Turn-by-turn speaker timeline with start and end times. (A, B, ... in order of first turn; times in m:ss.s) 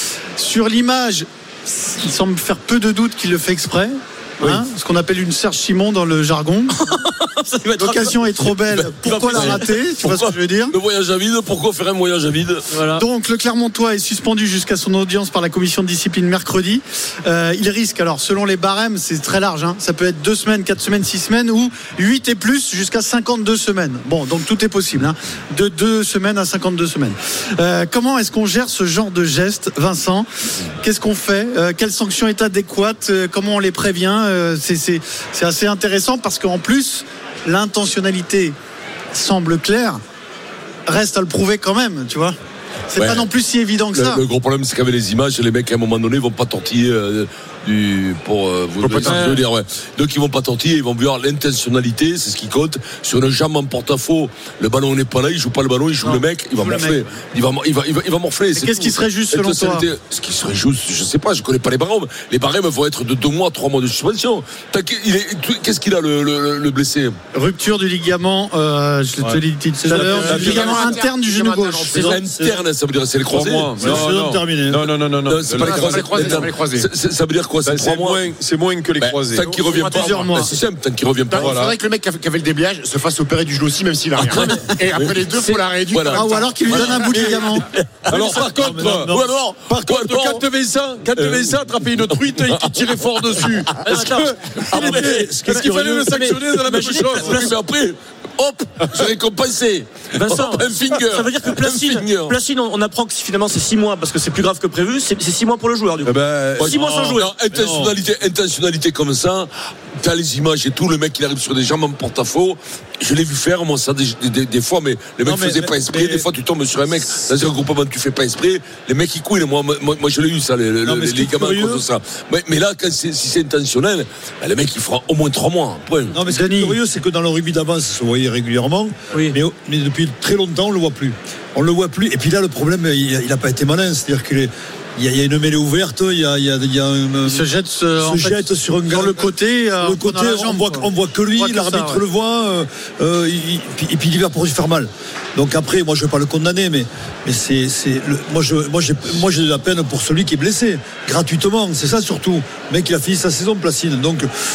0:00.4-0:06.8 A
0:06.8-0:08.2 B
0:07.8-0:10.7 A
0:08.7-0:12.6 C
0:09.1-0:09.6 B
0:12.7-0:13.0 B
0:13.0-0:30.3 A
0:30.8-0:38.5 A
0:39.1-0:40.0 A
0:40.9-0:42.4 A
0:42.9-0:44.2 A
0:43.0-0:43.3 C
0:43.9-1:07.2 C
0:48.8-0:49.3 D
0:49.1-0:49.4 A
0:56.0-0:57.0 A
0:58.5-0:59.9 A
1:07.3-1:12.2 A
1:09.8-1:11.0 E
1:09.9-1:12.2 D
1:10.2-1:10.9 F
1:11.9-1:14.1 C
1:12.2-1:12.6 E
1:13.3-1:16.5 F
1:13.8-1:14.9 E
1:15.2-1:18.3 C
1:15.6-1:16.9 D
1:17.6-1:19.7 F
1:19.0-1:21.6 C
1:19.5-1:20.5 D
1:19.9-1:20.5 A
1:21.3-1:27.3 D
1:21.3-1:21.8 F
1:24.2-1:27.4 C
1:26.1-1:27.7 A
1:27.1-1:27.4 F
1:28.0-1:30.4 C
1:28.1-1:29.1 F
1:28.1-1:29.3 E
1:29.7-1:37.4 F
1:31.2-1:34.1 C
1:33.8-1:37.6 B
1:34.7-1:35.2 C
1:34.7-1:37.1 E
1:37.1-1:42.4 C
1:40.2-1:47.3 B
1:46.0-1:46.8 F
1:46.6-2:06.2 C
1:46.8-1:47.9 E
1:55.2-1:56.2 E
2:00.8-2:01.8 E
2:06.1-2:34.3 E
2:06.3-2:06.8 A
2:17.2-2:22.0 A